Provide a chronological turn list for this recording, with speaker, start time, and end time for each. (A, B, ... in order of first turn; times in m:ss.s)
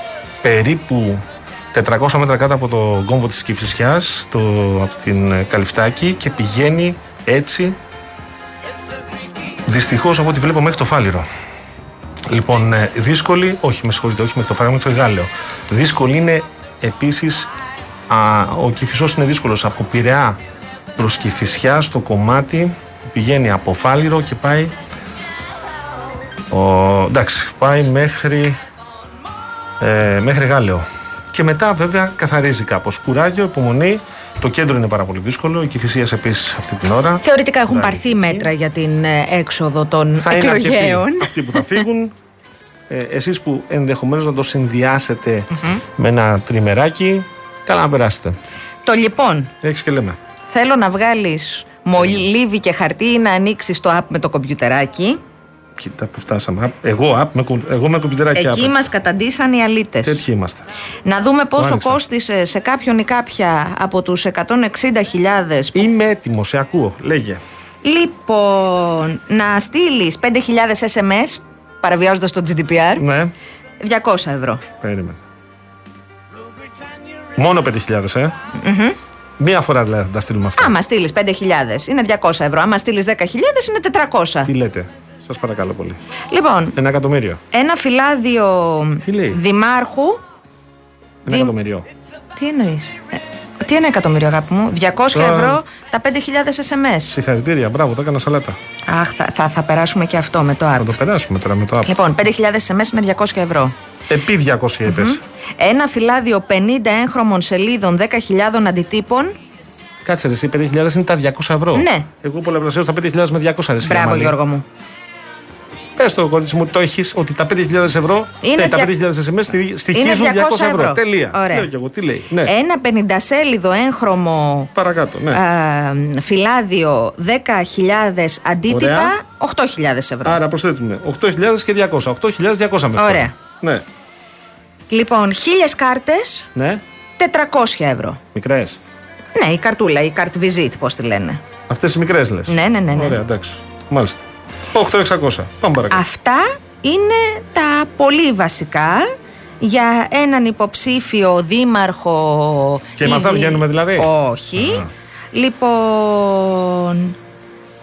0:00.4-0:07.8 A
0:09.7-0:11.3 A
0:12.3-0:17.5 A
0:18.1-0:20.4 A
0:21.0-0:24.8 A
0:26.5-0:28.6 A
0:29.8-0:38.5 A
0:37.2-0:41.8 B
0:40.2-0:42.1 A
0:42.9-0:48.4 A
0:45.6-0:45.8 B
0:48.8-0:49.5 B
0:49.6-0:50.2 A
0:50.5-0:55.2 B
0:52.0-0:52.2 A
0:55.8-0:58.8 A
0:58.4-1:00.2 B
1:00.0-1:00.6 A
1:01.1-1:05.9 B
1:01.6-1:02.0 A
1:05.8-1:07.4 A
1:07.8-1:13.1 B
1:13.0-1:13.3 A
1:13.8-1:14.6 B
1:14.8-1:15.2 A
1:17.4-1:18.3 A
1:18.6-1:19.0 B
1:19.4-1:20.8 A
1:20.6-1:24.5 B
1:24.4-1:26.0 A
1:26.3-1:26.8 B
1:26.8-1:27.4 A
1:27.5-1:30.2 B
1:29.0-1:29.4 A
1:31.2-1:31.9 A
1:32.4-1:37.2 B
1:35.1-1:35.6 A
1:37.1-1:38.6 A
1:38.9-1:40.9 B
1:40.8-1:42.0 A
1:41.9-1:43.7 B
1:44.1-1:45.2 A
1:44.9-1:49.4 B
1:50.0-1:54.4 A
1:51.8-1:52.1 B
1:53.8-1:54.6 B
1:56.0-2:02.5 A
1:58.4-1:58.9 B
1:59.9-2:01.7 B
2:02.4-2:04.7 B
2:04.8-2:05.4 A
2:05.3-2:10.4 B
2:08.7-2:09.2 A
2:10.2-2:13.9 A
2:13.0-2:13.3 B
2:14.9-2:16.5 B
2:16.6-2:16.8 A
2:17.2-2:18.2 B
2:18.3-2:18.8 A
2:19.4-2:21.4 B
2:21.7-2:26.0 A
2:22.5-2:23.2 B
2:25.9-2:29.1 B
2:29.6-2:37.1 B
2:33.0-2:34.9 A